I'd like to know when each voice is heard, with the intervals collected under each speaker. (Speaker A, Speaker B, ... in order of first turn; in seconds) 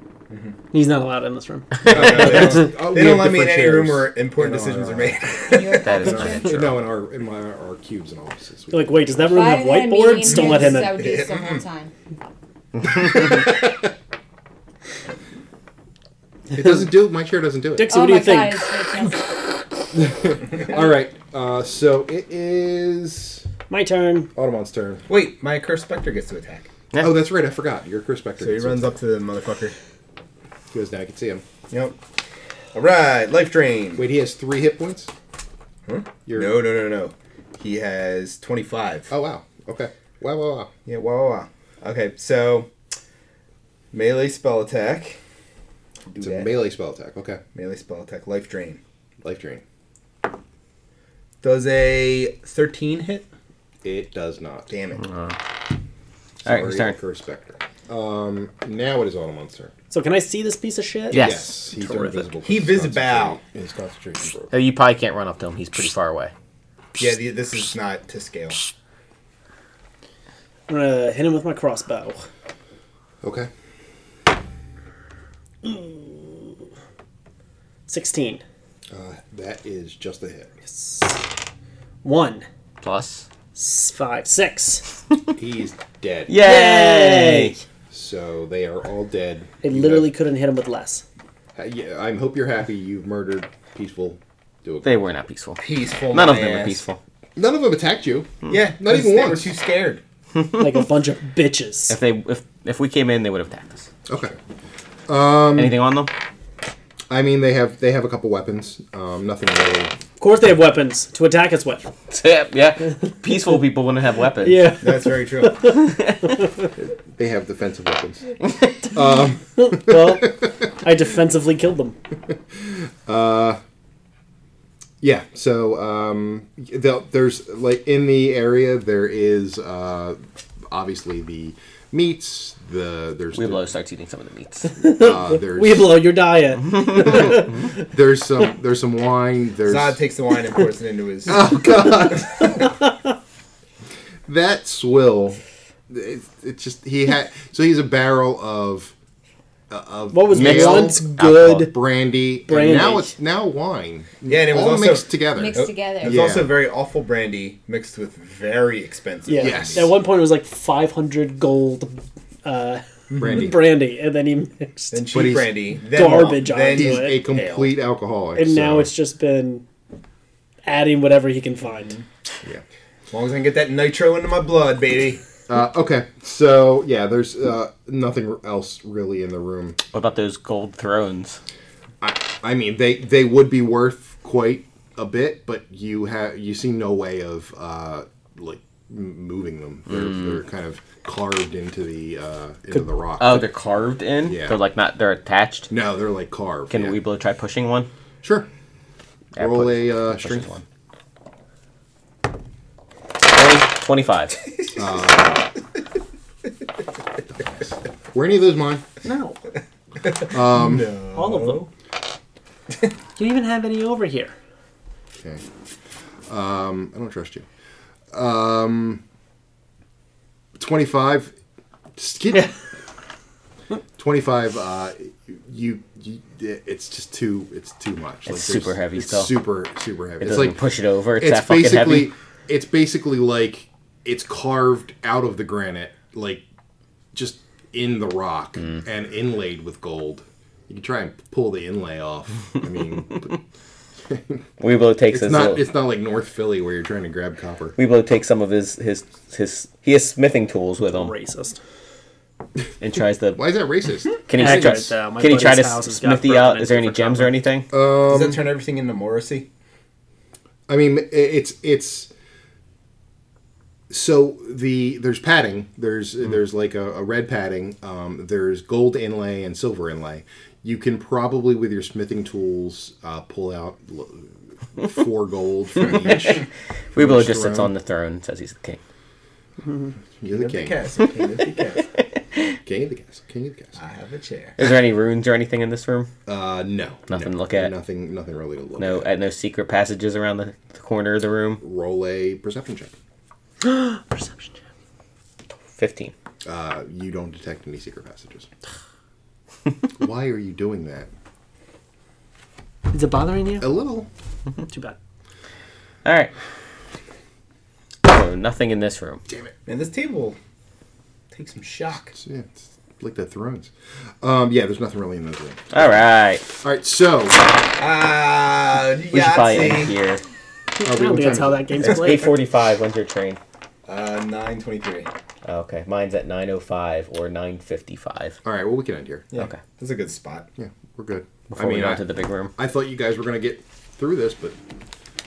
Speaker A: 0.3-0.5, 1.9-6.4, 10.3-11.6, 25.1-26.7, 28.4-29.8, 31.7-32.0, 32.7-34.1, 35.9-39.1, 40.9-42.7, 43.9-45.2, 46.1-46.5, 47.5-48.8, 51.4-53.3, 54.7-55.0, 62.4-63.4, 67.0-68.6, 95.6-96.8, 98.4-100.0, 114.8-115.7, 139.6-142.4, 154.2-159.9, 163.1-163.4, 164.9-167.7, 173.1-175.2, 210.0-211.7, 258.0-259.5, 280.3-281.9, 283.8-284.6, 309.6-310.4, 311.3-312.1, 317.8-319.9, 323.9-325.1, 329.3-330.5
Speaker B: 0.7-2.6, 8.7-11.0, 16.5-16.9, 17.7-19.2, 23.7-24.3, 59.9-62.2, 70.7-72.2, 75.6-76.4, 77.9-78.4, 80.7-81.2, 82.0-82.5, 83.5-84.8, 86.4-87.6, 89.6-91.0, 100.6-102.0, 110.2-111.9, 114.4-116.4, 119.6-122.0, 134.7-137.7, 150.1-151.7, 152.5-153.1, 159.3-165.1, 165.9-167.2, 168.3-169.6, 170.6-171.9, 209.0-209.4, 211.1-211.6, 213.2-214.3, 250.8-251.6, 254.3-257.4, 293.6-294.5, 302.9-303.8, 304.7-305.0, 320.8-322.3
Speaker C: 1.9-5.2, 6.1-9.2, 12.9-13.7, 16.5-17.9, 19.9-23.4, 24.3-25.0, 27.0-29.0, 30.7-31.4, 34.0-35.1, 36.3-36.6, 39.1-40.7, 46.2-47.4, 49.2-49.6, 53.8-54.7, 56.4-59.7, 61.1-64.5, 73.2-73.5, 78.9-80.5, 85.3-86.3, 87.9-90.1, 91.5-95.0, 97.3-99.5, 104.1-104.3, 105.1-105.8, 107.1-110.0, 116.8-118.3, 118.8-120.5, 122.6-123.6, 125.0-133.7, 134.8-136.0, 136.9-140.0, 141.3-142.7, 144.3-148.9, 149.7-156.6, 159.3-159.9, 163.2-163.6, 165.1-165.7, 166.7-168.9, 175.5-179.8, 182.0-193.5, 194.2-194.6, 195.7-197.0, 198.2-198.5, 199.3-200.5, 204.7-205.5, 207.4-208.8, 210.3-210.9, 216.3-217.4, 218.1-219.0, 220.6-221.3, 221.9-222.5, 223.9-230.6, 231.2-236.4, 237.1-243.4, 244.0-244.4, 245.1-247.8, 253.3-254.8, 257.7-258.4, 260.7-262.1, 263.9-277.7, 280.2-280.9, 282.6-283.7, 286.2-289.1, 291.6-292.9, 296.4-298.5, 300.0-301.1, 303.6-304.1, 312.1-315.7, 316.6-317.4, 320.8-321.9, 328.4-329.3, 330.6-334.6
Speaker D: 5.5-6.5, 9.3-11.9, 17.9-19.4, 155.3-156.3
Speaker E: 5.8-6.7, 55.0-55.4, 56.4-57.0, 61.1-61.5, 64.5-66.3, 82.8-83.2, 86.3-87.6, 94.8-97.0, 100.4-100.7, 101.9-103.9, 105.5-106.1, 112.1-114.8, 115.7-116.3, 133.3-134.8, 150.3-151.7, 179.9-181.4, 190.0-190.3, 193.2-195.7, 196.7-197.9, 199.4-200.6, 203.3-204.4, 228.3-229.4, 230.2-232.1, 244.6-245.6, 247.8-251.1, 252.8-253.4, 254.3-257.7, 275.9-276.3, 276.9-278.8, 284.6-286.1, 287.1-287.7, 288.8-291.6, 295.7-296.1, 306.0-306.3, 308.0-309.2, 315.7-316.4, 319.1-320.2, 321.8-323.4, 325.4-328.4, 331.5-332.5